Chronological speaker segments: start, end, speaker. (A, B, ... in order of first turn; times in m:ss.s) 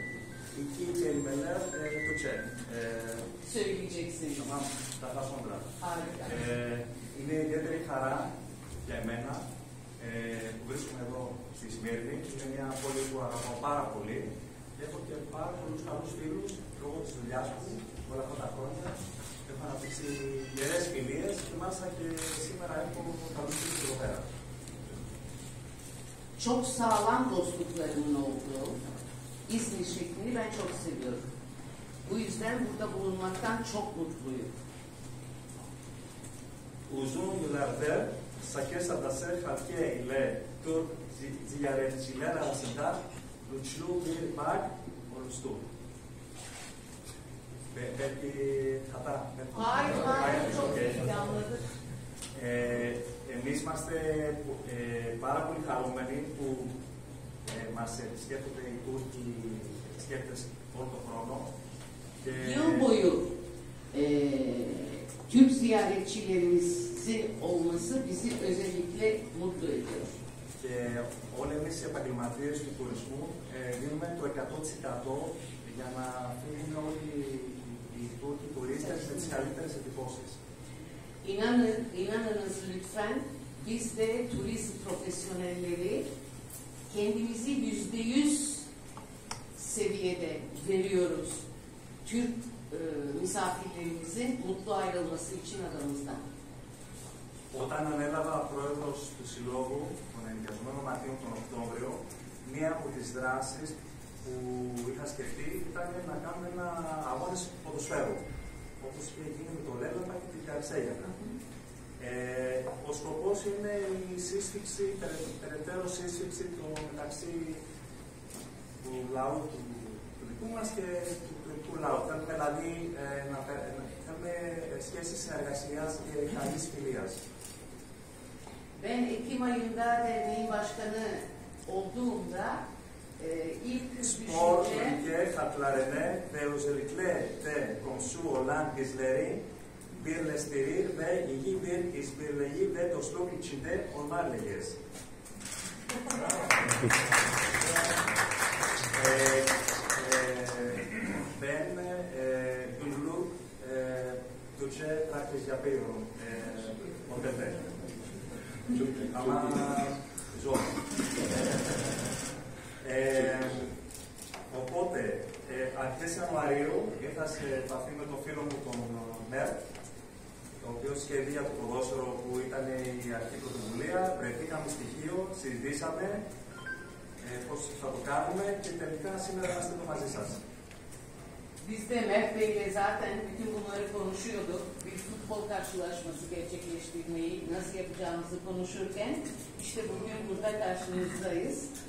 0:00.5-0:03.3 A
0:03.4-0:04.5 B
0:04.4-0:05.7 A
0:05.8-0:06.4 B
0:06.3-0:08.3 A
0:08.8-0:09.4 A
0:10.0-0:24.2 A
0:26.4-0:28.8 B
0:29.5-0:31.3 B
0:32.0-0:34.5 B
0:36.9-0:45.6 A
0:47.7-0:51.2 A
0:49.5-0:51.6 B
0:52.3-0:56.7 A
0:57.5-1:01.5 A
1:02.2-1:02.9 A
1:02.4-1:03.3 B
1:03.9-1:10.2 B
1:10.6-1:20.4 A
1:21.2-1:26.0 B
1:26.9-1:28.7 B
1:29.6-1:31.4 B
1:32.0-1:36.2 B
1:37.5-1:48.2 A
1:48.8-1:51.3 A
1:52.0-1:57.6 A
1:58.8-2:07.2 A
2:08.8-2:12.6 B
2:13.2-2:15.0 B
2:14.0-2:19.4 A
2:19.9-2:24.8 A
2:26.1-2:26.8 A
2:28.9-2:37.8 A
2:38.7-2:40.7 A
2:42.8-2:43.7 A
2:44.5-2:49.6 A
2:50.6-2:56.2 A
2:57.2-3:00.4 A
3:01.6-3:11.7 B